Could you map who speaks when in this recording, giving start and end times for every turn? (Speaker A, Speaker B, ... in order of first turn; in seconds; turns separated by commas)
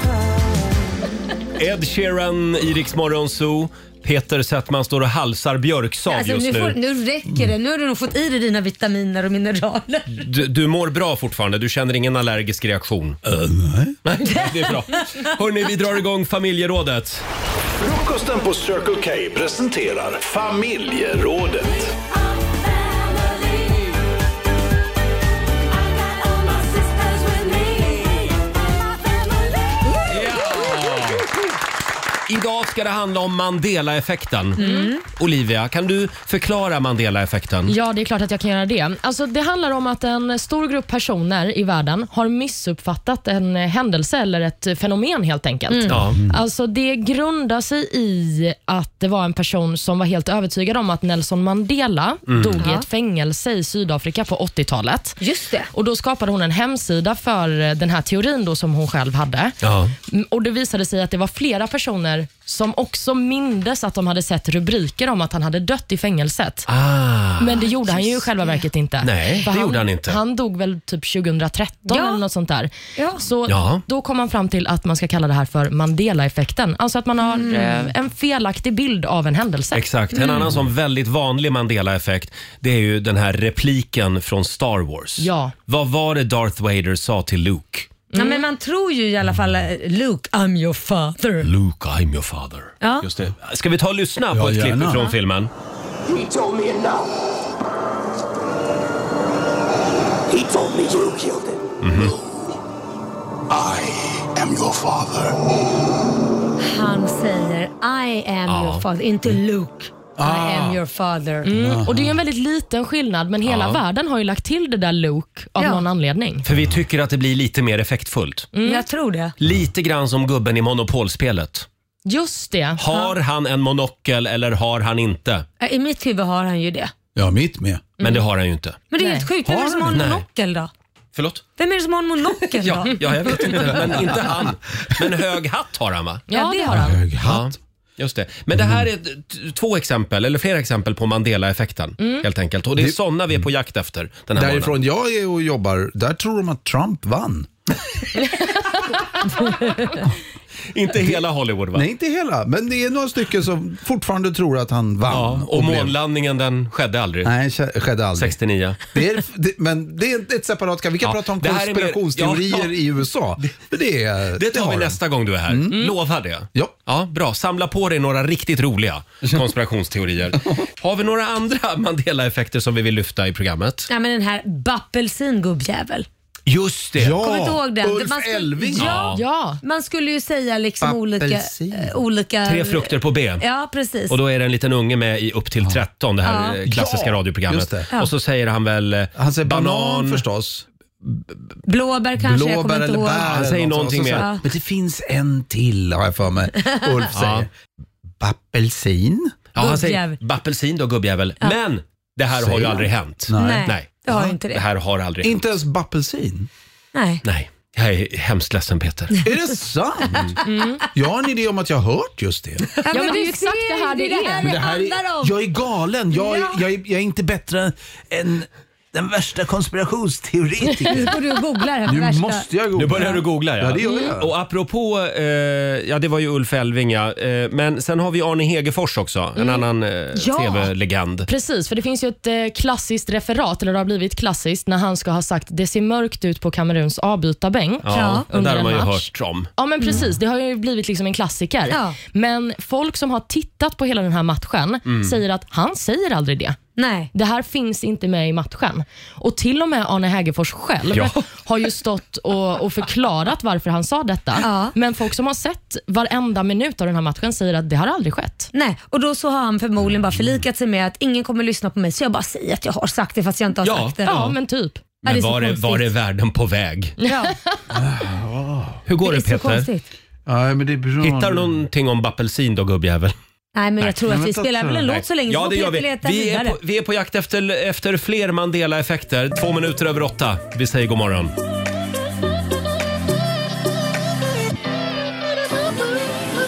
Speaker A: 1.6-6.8, Speaker B: 6.1-10.2, Speaker A: 10.1-13.2, Speaker C: 13.2-14.0, Speaker A: 14.1-17.2, Speaker B: 14.3-15.3, Speaker C: 17.8-21.9, Speaker A: 30.1-31.3, Speaker A: 32.3-37.8, Speaker B: 34.6-35.0, Speaker D: 34.6-34.9, Speaker D: 37.7-55.2, Speaker B: 45.7-46.0, Speaker A: 45.9-46.2, Speaker A: 52.3-52.6, Speaker B: 52.6-52.9, Speaker B: 55.2-55.7, Speaker D: 55.7-59.6, Speaker A: 59.6-60.0, Speaker D: 60.1-66.7, Speaker A: 66.7-67.7, Speaker D: 67.4-79.8, Speaker A: 69.0-70.2, Speaker B: 71.9-72.2, Speaker B: 73.0-73.2, Speaker A: 73.5-73.8, Speaker B: 77.2-77.9, Speaker A: 79.7-87.9, Speaker B: 80.1-80.5, Speaker D: 85.2-85.5, Speaker D: 88.1-88.5, Speaker B: 88.1-91.5, Speaker A: 91.4-95.5, Speaker B: 92.8-93.1, Speaker C: 94.3-95.1, Speaker E: 96.1-97.0, Speaker E: 100.3-101.6, Speaker A: 101.8-102.2, Speaker C: 103.6-103.8, Speaker C: 104.4-105.2, Speaker B: 106.6-111.5, Speaker A: 108.5-108.8, Speaker C: 110.2-110.8, Speaker D: 111.5-116.5, Speaker C: 111.5-112.2, Speaker A: 113.4-113.8, Speaker B: 115.6-115.8, Speaker A: 116.5-118.5, Speaker D: 118.5-118.9, Speaker B: 118.6-119.3, Speaker A: 119.4-121.7, Speaker D: 122.1-122.8, Speaker A: 122.8-125.5, Speaker B: 125.6-126.9, Speaker C: 127.2-127.9, Speaker A: 128.0-128.8, Speaker B: 128.9-130.7, Speaker D: 129.0-129.3, Speaker C: 129.4-130.1, Speaker A: 129.9-130.2, Speaker A: 131.2-131.4, Speaker B: 131.6-134.0, Speaker A: 132.5-136.2, Speaker D: 136.3-137.0, Speaker B: 136.3-137.0, Speaker C: 136.7-137.6, Speaker A: 137.2-144.8, Speaker C: 138.5-138.9, Speaker D: 142.0-142.2, Speaker C: 144.3-147.5, Speaker A: 150.7-151.9, Speaker C: 150.9-151.2, Speaker C: 151.7-156.0, Speaker A: 155.1-157.3, Speaker C: 157.2-165.9, Speaker A: 158.2-158.8, Speaker A: 161.0-162.8, Speaker A: 164.3-173.9, Speaker C: 170.3-170.6, Speaker B: 173.9-176.1, Speaker A: 176.5-177.2, Speaker C: 177.0-179.1, Speaker B: 177.2-184.2, Speaker A: 178.8-179.2, Speaker D: 179.1-179.6, Speaker C: 180.8-182.0, Speaker A: 182.4-183.4, Speaker A: 184.1-190.2, Speaker B: 186.2-186.6, Speaker C: 186.7-187.9, Speaker C: 189.2-191.2, Speaker B: 191.7-193.4, Speaker C: 192.2-197.5, Speaker A: 193.2-194.3, Speaker B: 194.2-194.4, Speaker B: 196.6-196.9, Speaker A: 197.1-197.5, Speaker C: 198.2-199.4, Speaker A: 199.6-205.4, Speaker B: 199.6-200.2, Speaker C: 202.3-204.3, Speaker B: 203.3-204.6, Speaker C: 205.2-206.5, Speaker B: 206.9-207.2, Speaker A: 207.2-209.2, Speaker C: 209.2-210.4, Speaker D: 210.4-210.8, Speaker C: 210.9-212.7, Speaker B: 212.8-215.3, Speaker D: 212.9-214.5, Speaker C: 214.4-221.2, Speaker B: 216.1-216.6, Speaker B: 220.9-222.5, Speaker C: 221.9-224.3, Speaker A: 222.8-231.3, Speaker B: 230.1-230.7, Speaker D: 231.3-246.6, Speaker A: 237.8-239.5, Speaker B: 237.9-238.3, Speaker B: 241.7-242.0, Speaker A: 244.9-245.2, Speaker B: 246.8-247.1, Speaker D: 247.1-258.5, Speaker A: 250.9-251.2, Speaker B: 254.4-254.8, Speaker B: 258.5-264.2, Speaker A: 263.6-264.4, Speaker D: 264.1-264.9, Speaker A: 265.0-267.0, Speaker B: 265.1-265.9, Speaker D: 267.0-267.5, Speaker B: 267.1-267.3, Speaker C: 267.7-268.8, Speaker A: 268.9-269.7, Speaker B: 269.0-269.9, Speaker C: 270.3-271.6, Speaker A: 271.0-273.1, Speaker B: 273.6-276.6, Speaker C: 274.0-274.9, Speaker A: 274.9-281.3